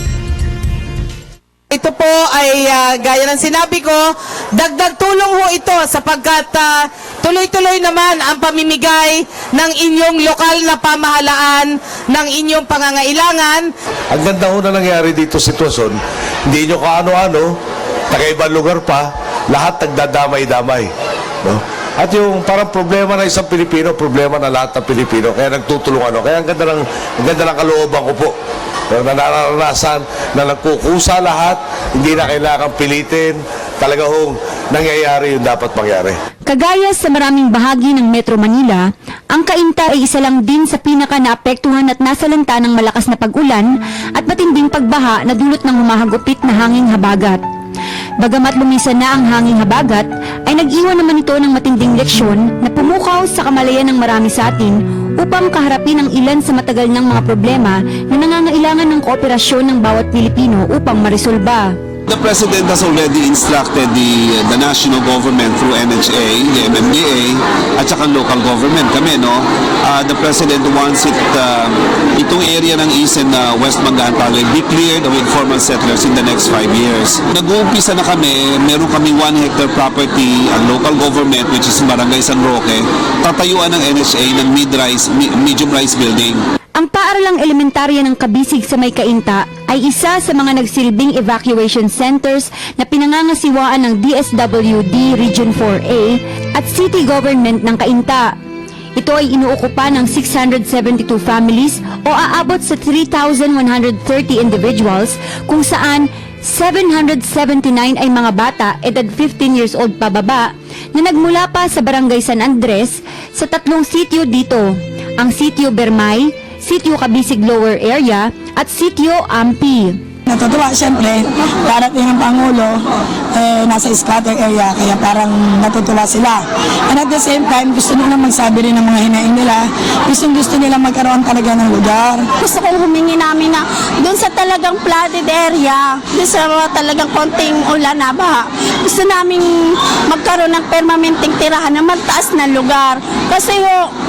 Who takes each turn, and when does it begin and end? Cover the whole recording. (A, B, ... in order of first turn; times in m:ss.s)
0:01.7-0:13.7 A
0:14.1-0:17.5 B
0:18.1-0:20.9 B
0:21.4-0:28.3 B
0:28.9-0:36.2 B
0:36.5-0:47.4 C
0:48.2-1:01.7 C
1:02.1-1:26.4 D
1:26.8-1:38.3 C
1:39.0-2:00.0 C
2:00.3-2:02.8 E
2:03.4-2:12.3 E
2:12.4-2:23.9 F